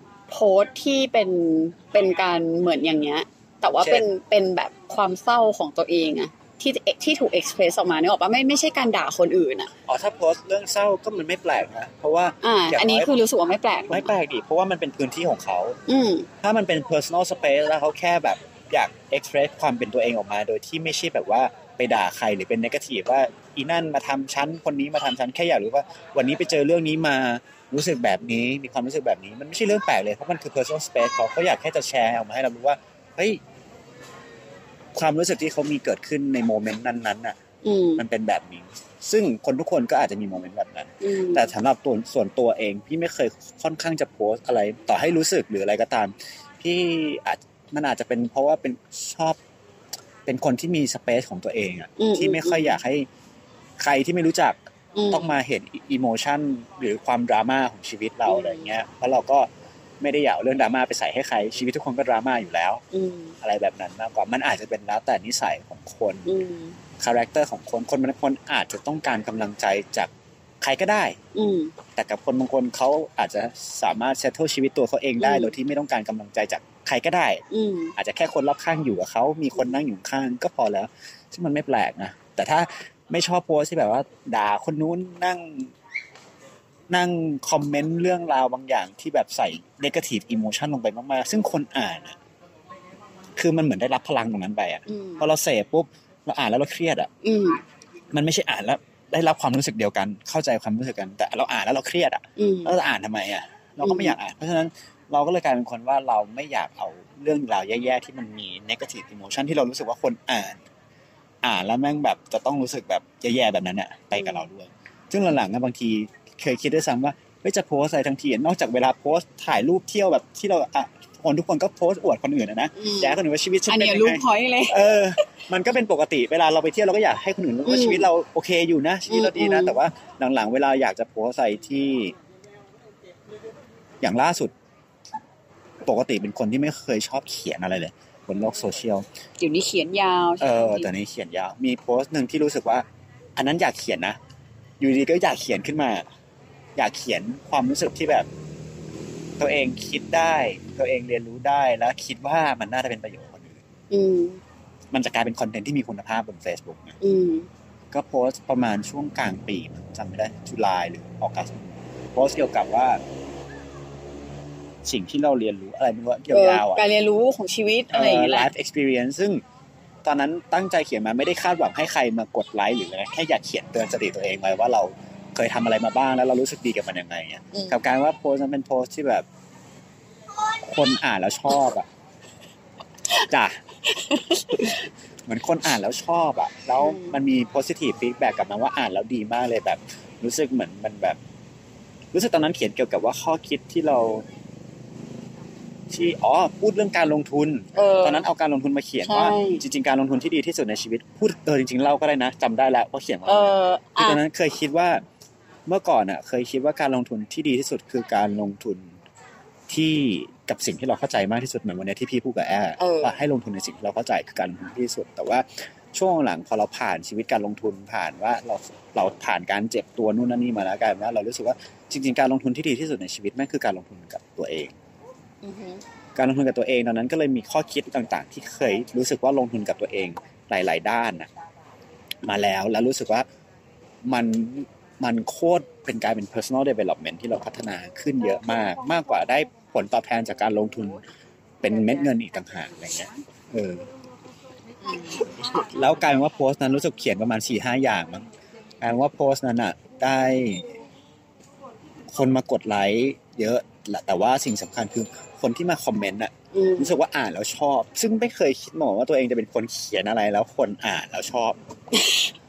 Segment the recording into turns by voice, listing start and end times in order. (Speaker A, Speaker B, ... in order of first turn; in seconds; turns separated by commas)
Speaker A: 0.3-9.7, Speaker B: 3.8-4.1, Speaker B: 9.9-13.1, Speaker A: 12.4-14.1, Speaker B: 13.9-15.8, Speaker A: 15.9-16.3, Speaker B: 16.4-33.4, Speaker B: 34.9-37.4, Speaker A: 37.6-38.0, Speaker B: 38.0-49.4, Speaker A: 41.0-41.5, Speaker B: 50.3-53.1, Speaker A: 52.0-52.8, Speaker B: 53.8-54.6, Speaker A: 55.0-55.3, Speaker B: 55.1-59.5, Speaker A: 58.3-58.7, Speaker B: 60.0-62.8, Speaker A: 62.9-63.4, Speaker B: 63.4-66.3, Speaker A: 66.3-66.8, Speaker B: 67.0-71.2, Speaker A: 71.3-71.7, Speaker B: 72.0-77.4, Speaker A: 75.2-75.5, Speaker A: 77.5-77.9, Speaker B: 78.0-85.7, Speaker B: 86.9-92.2, Speaker B: 93.4-97.1, Speaker A: 94.9-95.2, Speaker A: 97.2-97.6, Speaker B: 98.1-110.6, Speaker A: 102.4-102.7, Speaker A: 103.8-104.2, Speaker B: 111.4-132.2, Speaker A: 114.2-114.5, Speaker A: 122.8-124.8, Speaker A: 127.7-128.1, Speaker A: 129.1-129.8, Speaker B: 134.0-134.5, Speaker B: 135.8-139.1, Speaker A: 139.4-140.9, Speaker B: 140.4-142.8, Speaker B: 143.4-144.2, Speaker B: 144.8-146.1, Speaker B: 146.8-148.3, Speaker B: 149.4-153.6, Speaker A: 153.9-154.4, Speaker B: 154.9-157.0, Speaker A: 157.0-157.5, Speaker B: 157.9-163.0, Speaker B: 164.8-166.8, Speaker A: 166.3-168.5, Speaker B: 167.9-169.4, Speaker B: 170.0-179.3, Speaker A: 177.5-177.8, Speaker B: 180.6-181.9, Speaker B: 183.3-183.6, Speaker A: 183.9-184.8, Speaker B: 184.5-184.8, Speaker B: 185.3-191.2, Speaker A: 186.8-187.2, Speaker B: 192.1-194.3, Speaker B: 195.9-205.0, Speaker A: 197.8-198.3, Speaker A: 199.0-199.6, Speaker A: 203.3-204.2, Speaker B: 205.7-208.9, Speaker B: 209.7-224.7, Speaker A: 212.8-213.2, Speaker A: 225.4-225.8, Speaker B: 226.2-231.3, Speaker B: 232.2-233.3, Speaker B: 234.1-241.0, Speaker B: 241.6-243.9, Speaker A: 244.8-245.3, Speaker B: 245.6-248.3, Speaker B: 248.8-250.7, Speaker B: 252.1-261.6, Speaker A: 256.5-256.9, Speaker A: 261.9-262.3